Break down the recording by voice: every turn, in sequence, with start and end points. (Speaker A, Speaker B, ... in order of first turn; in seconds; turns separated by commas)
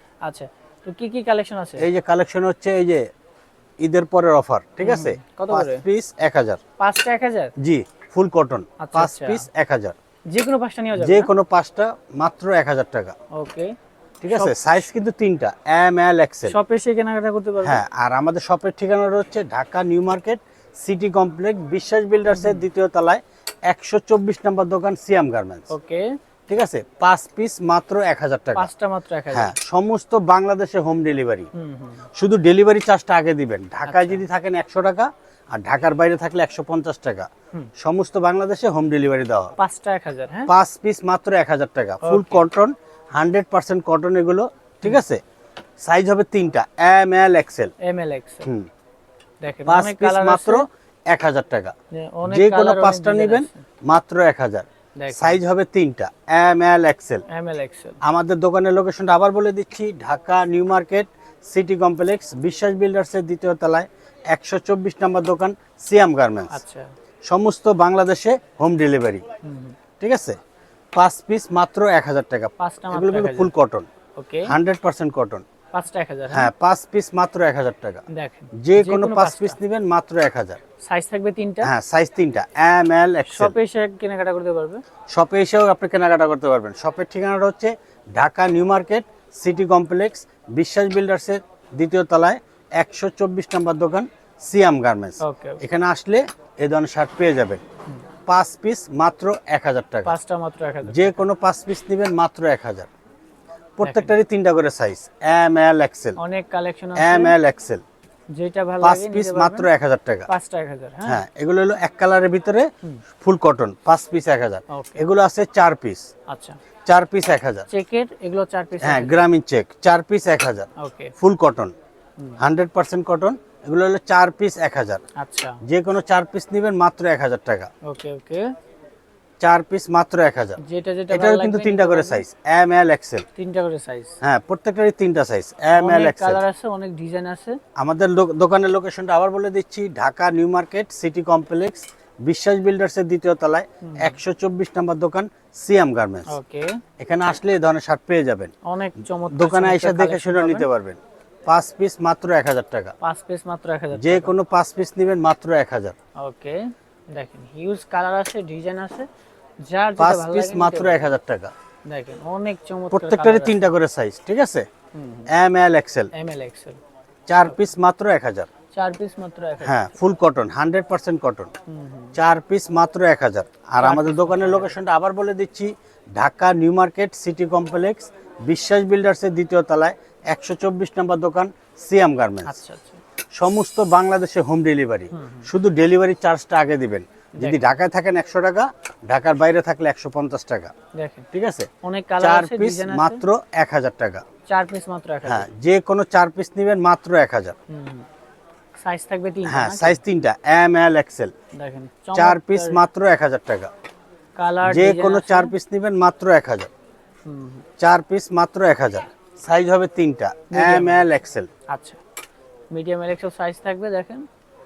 Speaker A: 0.2-1.9, Speaker B: 1.8-3.1, Speaker B: 3.8-6.6, Speaker A: 4.8-5.8, Speaker A: 6.8-7.5, Speaker B: 7.6-9.9, Speaker A: 8.8-9.4, Speaker A: 10.3-11.3, Speaker B: 11.0-13.2, Speaker A: 13.3-13.8, Speaker B: 14.2-16.6, Speaker A: 14.3-14.9, Speaker A: 16.5-17.8, Speaker B: 17.6-25.7, Speaker A: 22.3-22.6, Speaker A: 25.7-26.1, Speaker B: 26.5-28.7, Speaker A: 28.6-29.5, Speaker B: 29.3-31.5, Speaker A: 31.5-32.0, Speaker B: 32.2-39.5, Speaker A: 33.9-34.2, Speaker A: 39.6-40.5, Speaker B: 40.5-45.2, Speaker A: 42.0-42.5, Speaker B: 45.8-47.7, Speaker A: 47.8-48.5, Speaker A: 49.4-50.6, Speaker B: 49.7-51.7, Speaker A: 51.9-53.6, Speaker B: 52.3-57.2, Speaker A: 55.0-55.4, Speaker A: 57.3-58.0, Speaker B: 58.0-66.6, Speaker A: 66.5-66.9, Speaker B: 67.3-69.2, Speaker A: 69.4-69.8, Speaker B: 70.0-70.4, Speaker B: 70.9-73.9, Speaker A: 72.6-73.5, Speaker A: 74.2-74.5, Speaker B: 74.5-75.4, Speaker A: 75.7-76.5, Speaker B: 76.3-78.0, Speaker A: 78.1-79.6, Speaker B: 78.6-80.6, Speaker A: 80.8-81.7, Speaker B: 81.6-83.5, Speaker A: 83.3-84.8, Speaker B: 85.1-97.6, Speaker A: 95.2-95.6, Speaker B: 98.3-100.2, Speaker A: 100.0-101.2, Speaker B: 100.9-102.9, Speaker B: 103.8-106.2, Speaker A: 103.8-104.2, Speaker A: 106.2-107.4, Speaker B: 107.0-107.8, Speaker A: 108.3-109.7, Speaker B: 108.8-110.3, Speaker A: 110.3-111.2, Speaker B: 111.1-112.7, Speaker B: 113.2-116.1, Speaker A: 114.7-115.0, Speaker A: 116.3-116.6, Speaker B: 116.9-117.7, Speaker A: 117.7-119.2, Speaker B: 118.8-121.7, Speaker A: 120.8-121.1, Speaker B: 122.4-125.0, Speaker A: 125.2-125.6, Speaker B: 125.7-127.7, Speaker A: 127.8-128.5, Speaker B: 129.4-130.6, Speaker A: 130.6-132.2, Speaker B: 131.1-133.2, Speaker A: 133.4-134.2, Speaker B: 134.2-136.4, Speaker A: 135.8-137.6, Speaker B: 137.8-146.3, Speaker A: 143.8-144.2, Speaker A: 146.3-146.8, Speaker B: 147.0-148.5, Speaker A: 148.7-150.7, Speaker B: 149.3-152.9, Speaker A: 153.0-154.3, Speaker B: 154.0-155.9, Speaker A: 156.2-159.1, Speaker A: 159.6-161.1, Speaker B: 160.0-161.5, Speaker A: 161.9-163.6, Speaker B: 162.9-164.7, Speaker A: 164.9-165.3, Speaker B: 165.3-166.1, Speaker A: 166.1-166.8, Speaker B: 167.3-168.5, Speaker A: 168.7-169.9, Speaker B: 169.6-171.5, Speaker A: 171.7-172.2, Speaker B: 172.2-182.6, Speaker A: 173.8-174.8, Speaker A: 182.4-183.0, Speaker B: 183.3-190.7, Speaker A: 185.1-185.5, Speaker A: 187.4-187.8, Speaker A: 190.9-191.3, Speaker B: 191.3-194.2, Speaker A: 191.8-193.2, Speaker A: 194.5-195.5, Speaker B: 195.2-197.6, Speaker A: 197.7-198.1, Speaker A: 198.8-200.0, Speaker B: 199.5-201.3, Speaker A: 201.6-202.8, Speaker B: 202.1-203.7, Speaker A: 204.4-205.5, Speaker B: 204.7-206.7, Speaker A: 207.2-207.7, Speaker B: 207.8-211.5, Speaker A: 210.5-211.1, Speaker A: 211.7-212.0, Speaker A: 212.7-214.3